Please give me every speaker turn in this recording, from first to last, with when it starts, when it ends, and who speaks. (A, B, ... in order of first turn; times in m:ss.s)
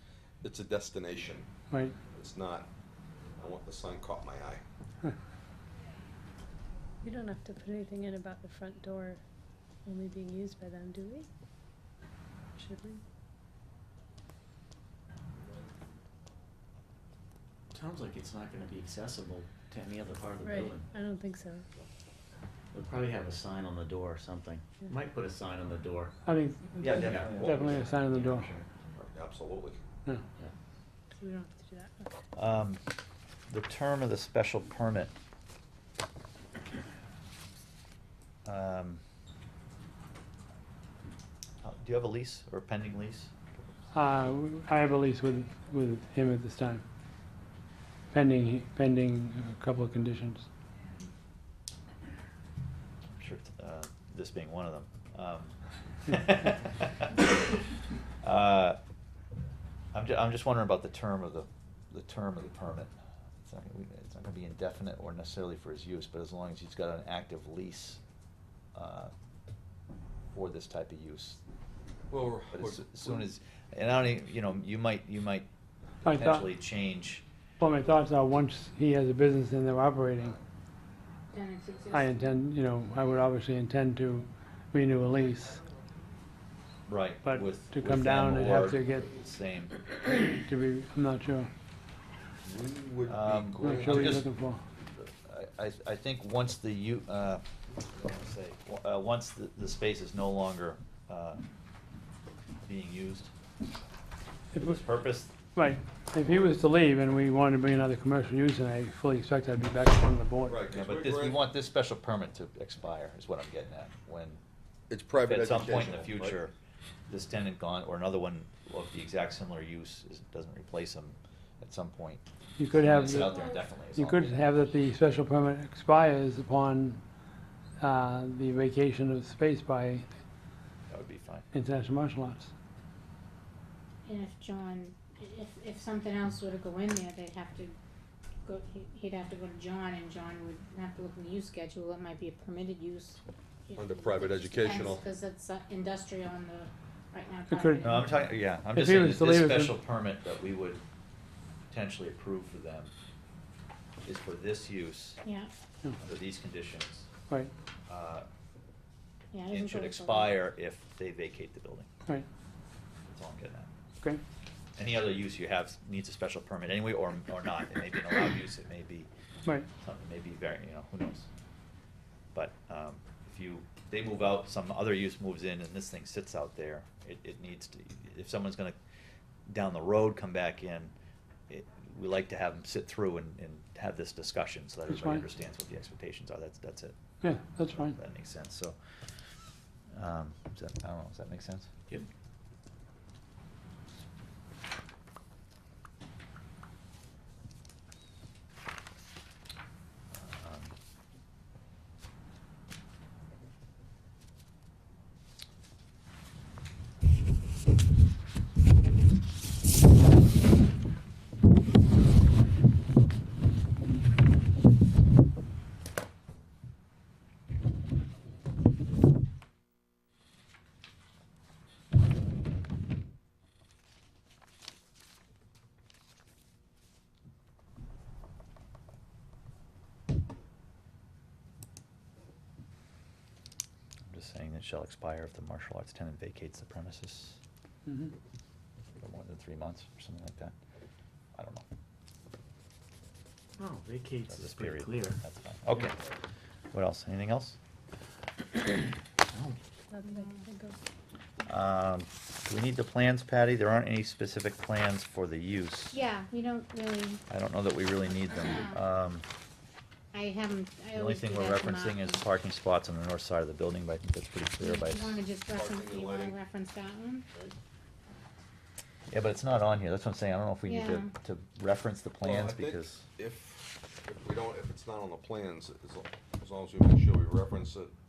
0:00.4-0:01.5 A
0:01.7-0:02.0 B
0:02.1-0:02.7 A
0:03.4-0:04.6 A
0:07.0-0:09.2 C
0:09.9-0:11.3 C
0:12.6-0:13.0 C
0:17.7-0:20.9 D
0:20.4-0:21.7 C
0:22.7-0:26.1 D
0:26.2-0:28.5 B
0:26.8-0:28.4 E
0:26.8-0:28.6 D
0:29.0-0:29.8 A
0:31.1-0:32.1 C
0:32.3-0:32.8 E
0:33.5-0:35.1 E
0:38.4-0:39.0 E
0:41.6-0:43.3 E
0:43.9-0:46.8 B
0:48.1-0:50.5 B
0:53.1-0:57.3 E
0:58.2-0:58.8 E
0:59.9-1:02.9 E
1:03.4-1:08.0 E
1:08.7-1:09.1 E
1:10.3-1:11.4 E
1:12.1-1:13.2 A
1:12.5-1:15.5 E
1:16.0-1:16.5 B
1:16.1-1:17.2 E
1:17.6-1:20.4 B
1:21.3-1:22.2 F
1:21.9-1:25.6 B
1:26.9-1:29.8 E
1:27.2-1:29.1 B
1:30.3-1:31.5 B
1:32.4-1:34.2 A
1:33.0-1:34.3 E
1:33.6-1:34.6 B
1:34.9-1:41.4 E
1:42.6-1:43.3 E
1:44.5-1:44.8 B
1:44.6-1:45.3 E
1:45.5-1:50.6 B
1:50.4-1:51.4 A
1:50.7-1:54.4 E
1:54.9-1:56.4 A
1:55.2-1:56.5 E
1:57.1-2:02.2 E
2:02.6-2:07.0 B
2:02.7-2:04.4 E
2:03.0-2:03.6 F
2:07.8-2:10.1 B
2:10.9-2:11.5 E
2:11.5-2:12.5 B
2:14.0-2:17.8 F
2:18.4-2:28.3 F
2:23.8-2:25.0 A
2:27.5-2:28.0 B
2:27.8-2:30.8 E
2:28.7-2:29.8 B
2:31.7-2:32.9 E
2:34.0-2:35.2 E
2:35.2-2:35.5 F
2:36.0-2:37.1 E
2:37.9-2:38.3 E
2:39.3-2:40.3 F
2:39.5-2:41.9 E
2:43.1-2:43.7 E
2:44.8-2:49.1 E
2:49.8-2:51.3 E
2:52.3-2:58.8 E
2:59.5-3:00.9 E
3:01.5-3:07.0 E
3:04.9-3:05.2 B
3:07.2-3:08.0 B
3:07.6-3:08.8 E
3:09.9-3:11.7 E
3:20.1-3:20.8 E
3:54.1-3:57.4 E
3:57.9-3:58.1 B
3:59.0-4:00.5 E
4:01.3-4:01.6 E
4:03.6-4:05.2 D
4:04.3-4:06.0 E
4:06.7-4:07.6 E
4:09.3-4:09.6 D
4:09.9-4:10.8 C
4:10.0-4:10.4 F
4:11.5-4:16.0 E
4:15.9-4:17.2 F
4:17.3-4:19.3 E
4:18.3-4:18.8 F
4:20.1-4:22.3 F
4:20.9-4:25.2 E
4:24.6-4:27.3 F
4:25.5-4:26.4 A
4:29.1-4:33.0 E
4:30.7-4:31.1 F
4:32.2-4:37.9 A